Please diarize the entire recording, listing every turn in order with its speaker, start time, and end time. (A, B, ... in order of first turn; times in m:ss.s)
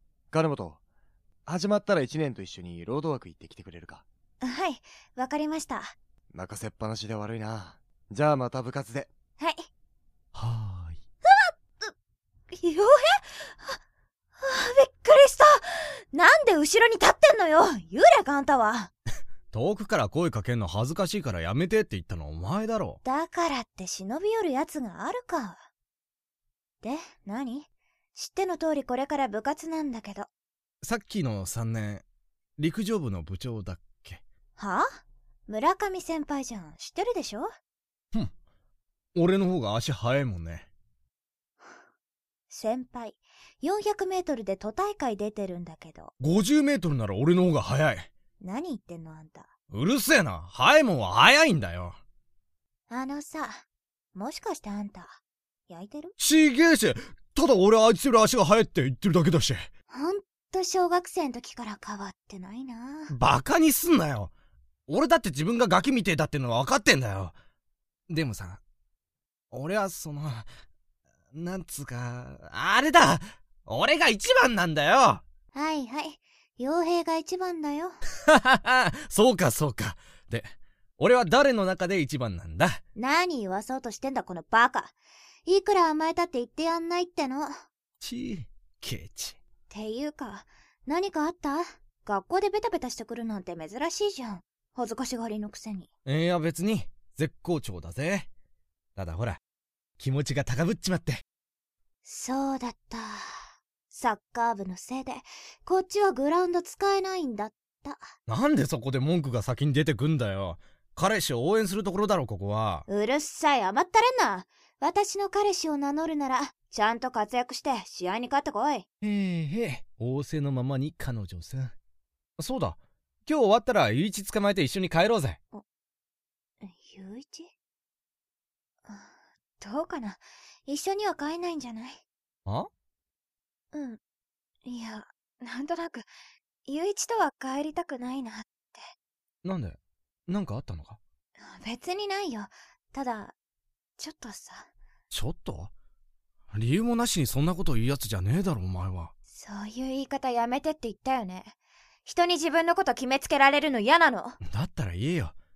0:00.3-0:00.8 A
0:01.5-0:04.0 A
0:04.4-0:06.0 B
0:06.3-0:09.1 A
0:09.4-0:09.7 B
0:10.3-0:11.0 C
0:11.3-0:11.9 B
0:12.5-0:13.8 B
0:14.4-0:18.9 B
0:19.5-0:23.0 C
0:23.0-0:25.6 B
0:26.8-0:30.3 B
0:30.8-0:32.0 C
0:32.6-0:34.2 C
0:34.6-0:37.5 B
0:39.1-0:40.7 C
0:42.5-0:46.1 B
0:46.2-0:48.1 C
0:48.4-0:49.5 B
0:49.7-0:52.0 C
0:52.9-0:53.6 B
0:54.1-0:56.1 B
0:56.2-0:59.7 C
0:59.9-1:03.1 B
1:03.1-1:04.3 C
1:04.9-1:07.3 C
1:08.1-1:08.6 C
1:09.5-1:10.5 C
1:11.3-1:15.2 C
1:15.5-1:18.0 B
1:18.3-1:22.8 C
1:23.0-1:24.9 B
1:25.4-1:27.6 B
1:28.0-1:29.4 C
1:29.7-1:35.9 B
1:36.0-1:38.3 C
1:39.0-1:39.4 C
1:40.0-1:41.2 C
1:42.0-1:48.1 B
1:48.3-1:52.8 C
1:52.9-1:58.8 B
1:59.0-2:01.7 C
2:02.4-2:05.4 C
2:06.6-2:07.5 B
2:08.9-2:12.0 B
2:13.7-2:14.0 B
2:14.6-2:16.1 B
2:16.6-2:18.9 B
2:19.4-2:21.0 C
2:21.4-2:23.3 B
2:24.0-2:24.7 B
2:25.1-2:25.7 C
2:26.5-2:29.1 C
2:29.3-2:31.5 B
2:32.0-2:34.4 B
2:34.4-2:35.3 C